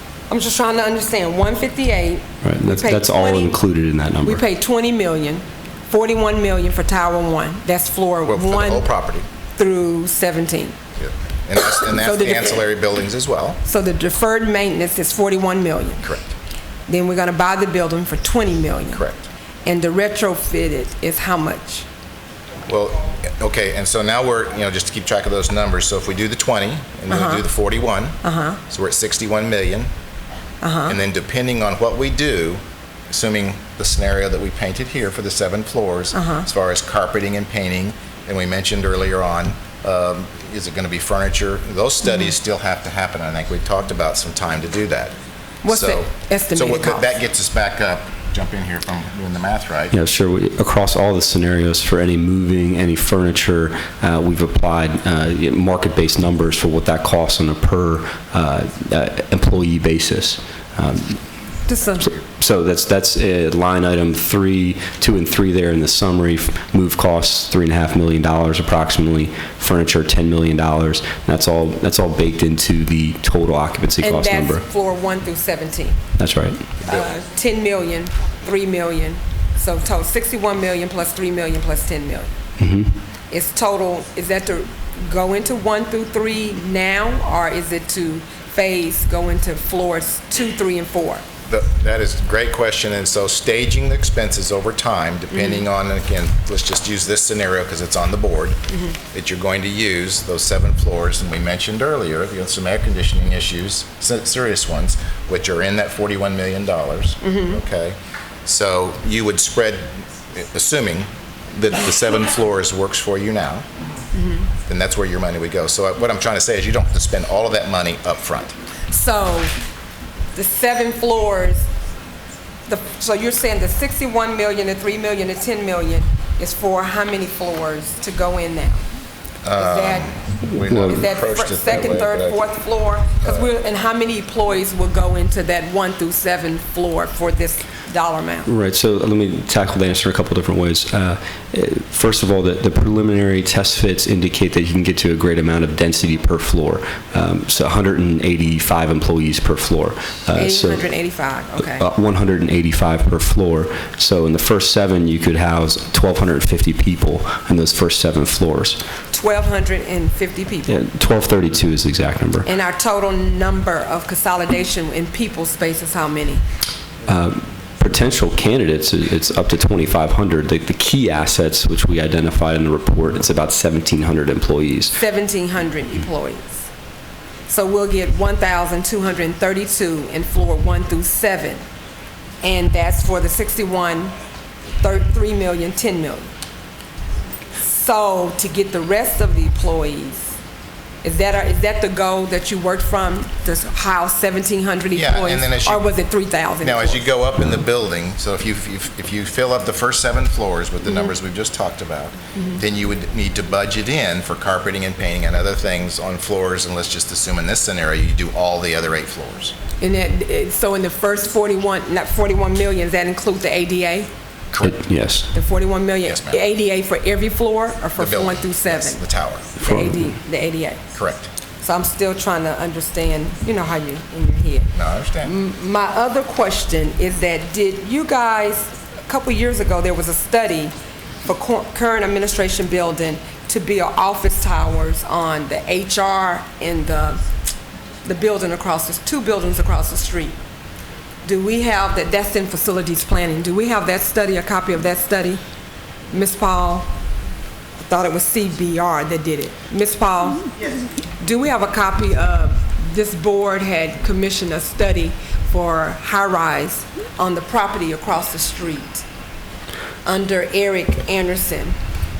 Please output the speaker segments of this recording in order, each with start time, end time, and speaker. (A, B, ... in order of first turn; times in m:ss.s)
0:00.3-0:03.6 A
0:02.4-0:04.4 B
0:04.2-0:08.9 A
0:08.2-0:09.3 C
0:09.6-0:10.8 A
0:11.0-0:13.6 C
0:11.8-0:12.6 A
0:13.6-0:16.0 A
0:16.0-0:16.3 C
0:16.9-0:19.0 A
0:18.9-0:19.2 C
0:19.6-0:21.8 A
0:22.7-0:28.2 C
0:27.1-0:27.4 A
0:28.2-0:28.6 A
0:28.7-0:29.9 C
0:30.6-0:31.0 A
0:30.9-0:45.1 C
0:36.1-0:36.4 A
0:42.0-0:42.3 A
0:45.6-0:47.1 A
0:45.7-0:49.9 C
0:49.9-1:01.2 B
1:01.7-1:02.1 A
1:02.1-1:14.6 B
1:14.0-1:16.0 A
1:16.2-1:16.6 B
1:16.8-1:22.3 A
1:22.6-1:22.9 B
1:23.3-1:31.2 A
1:31.4-1:38.6 C
1:35.3-1:35.6 A
1:38.7-1:39.0 A
1:39.1-1:53.6 C
1:47.2-1:47.6 A
1:54.1-1:54.5 A
1:54.7-1:58.5 C
1:58.9-1:59.6 A
2:00.3-2:01.7 A
2:02.7-2:08.8 A
2:09.4-2:12.5 C
2:09.6-2:10.2 A
2:10.6-2:11.0 B
2:10.8-2:18.5 A
2:13.2-2:13.5 C
2:18.4-2:30.8 B
2:30.3-2:31.8 A
2:31.6-2:38.8 B
2:39.1-2:40.8 A
2:40.7-2:42.5 B
2:42.4-2:46.4 A
2:47.1-2:54.9 B
2:54.9-2:56.6 A
2:57.5-3:01.6 A
3:02.4-3:04.1 A
3:04.8-3:06.3 A
3:07.6-3:10.3 A
3:11.0-3:17.1 A
3:14.9-3:15.8 C
3:16.6-3:29.5 C
3:29.8-3:34.1 A
3:34.5-3:34.8 C
3:34.6-3:35.3 B
3:35.3-3:39.0 A
3:36.0-3:36.4 C
3:38.0-3:39.6 C
3:39.6-3:41.0 A
3:39.6-3:40.1 B
3:40.9-3:41.3 C
3:41.6-3:50.7 A
3:44.7-3:45.3 C
3:51.2-3:57.2 A
3:58.0-4:00.4 A
4:01.2-4:05.4 A
4:06.1-4:06.9 A
4:07.8-4:10.5 A
4:11.2-4:19.0 A
4:20.0-4:21.8 A